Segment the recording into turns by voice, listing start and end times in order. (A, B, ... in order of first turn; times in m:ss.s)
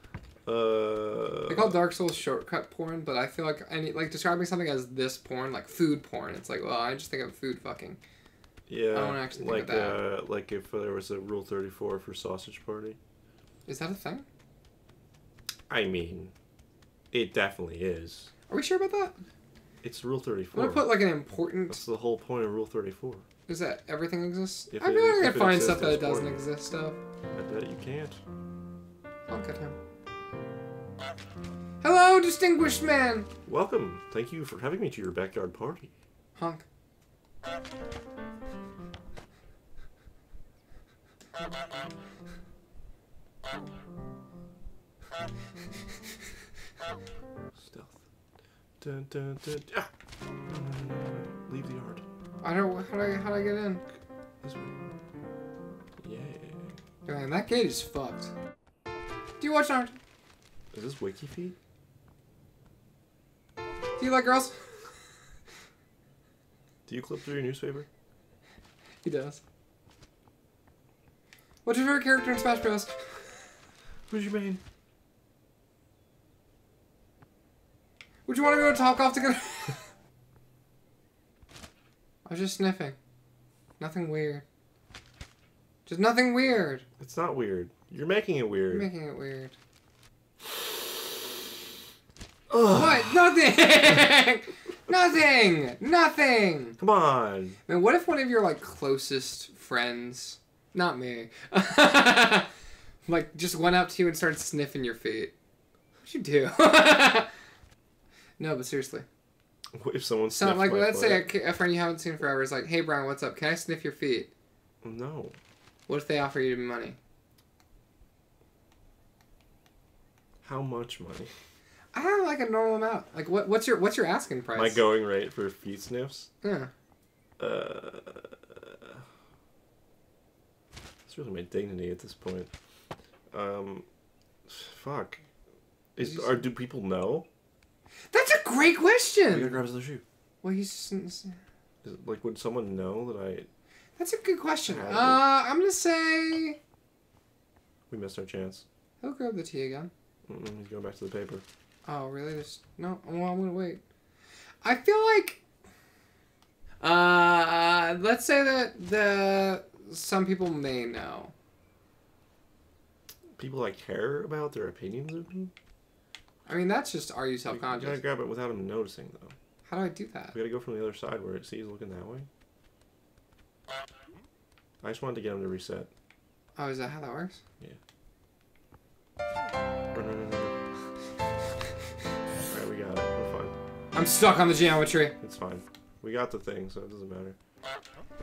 0:00.4-0:01.8 A
0:01.5-0:08.0 B
0:08.7-0:13.0 A
0:08.9-0:10.0 B
0:13.6-0:14.2 B
0:15.7-0:16.3 A
0:17.1-0:18.3 A
0:18.5-0:19.2 B
0:19.8-0:21.1 A
0:20.5-0:21.8 B
0:21.7-0:23.2 A
0:23.5-0:27.0 B
0:24.7-0:26.4 A
0:27.3-0:28.2 A
0:29.3-0:29.8 B
0:31.8-0:33.3 B
0:33.4-0:35.9 A
0:36.4-0:36.6 B
0:47.6-0:48.0 A
0:48.8-0:49.9 A
0:50.5-0:52.0 A
0:52.4-0:53.8 B
0:54.4-0:54.8 A
0:56.0-0:56.8 A
0:57.0-0:58.3 B
0:59.4-1:00.0 B
1:00.7-1:01.6 A
1:04.0-1:04.7 B
1:06.9-1:07.9 A
1:09.0-1:09.4 B
1:11.6-1:13.4 B
1:14.1-1:14.6 A
1:18.2-1:19.9 B
1:22.2-1:23.0 B
1:23.8-1:24.4 B
1:25.8-1:26.8 B
1:27.0-1:28.9 A
1:28.7-1:29.6 B
1:32.5-1:33.5 A
1:32.7-1:36.8 B
1:36.8-1:37.6 A
1:37.7-1:42.5 B
1:43.0-1:45.3 B
1:46.0-1:47.3 B
1:48.4-1:49.0 B
1:49.8-1:51.3 A
1:50.3-1:54.3 B
1:54.8-1:55.4 A
1:55.9-1:57.0 B
2:00.4-2:01.3 A
2:01.9-2:04.8 B
2:04.5-2:06.3 A
2:06.4-2:06.7 B
2:07.4-2:09.0 A
2:11.1-2:12.5 A
2:13.3-2:13.8 A
2:14.5-2:15.2 A
2:16.0-2:17.2 A
2:16.0-2:16.4 B
2:18.1-2:19.6 B
2:19.3-2:20.0 A
2:20.4-2:21.4 B
2:21.8-2:23.5 A
2:24.0-2:26.6 B
2:24.7-2:25.3 A
2:27.9-2:28.6 A
2:29.0-2:29.9 B
2:30.3-2:31.4 A
2:31.8-2:33.8 B
2:34.6-2:35.4 B
2:36.8-2:41.3 B
2:43.4-2:45.5 A
2:46.4-2:48.0 B
2:47.5-2:49.3 A
2:49.6-2:50.4 B
2:50.3-2:52.3 A
2:54.8-2:55.9 A
2:56.6-2:57.4 B
2:59.9-3:00.6 A
3:02.5-3:03.5 A
3:03.9-3:05.1 B
3:05.2-3:07.4 A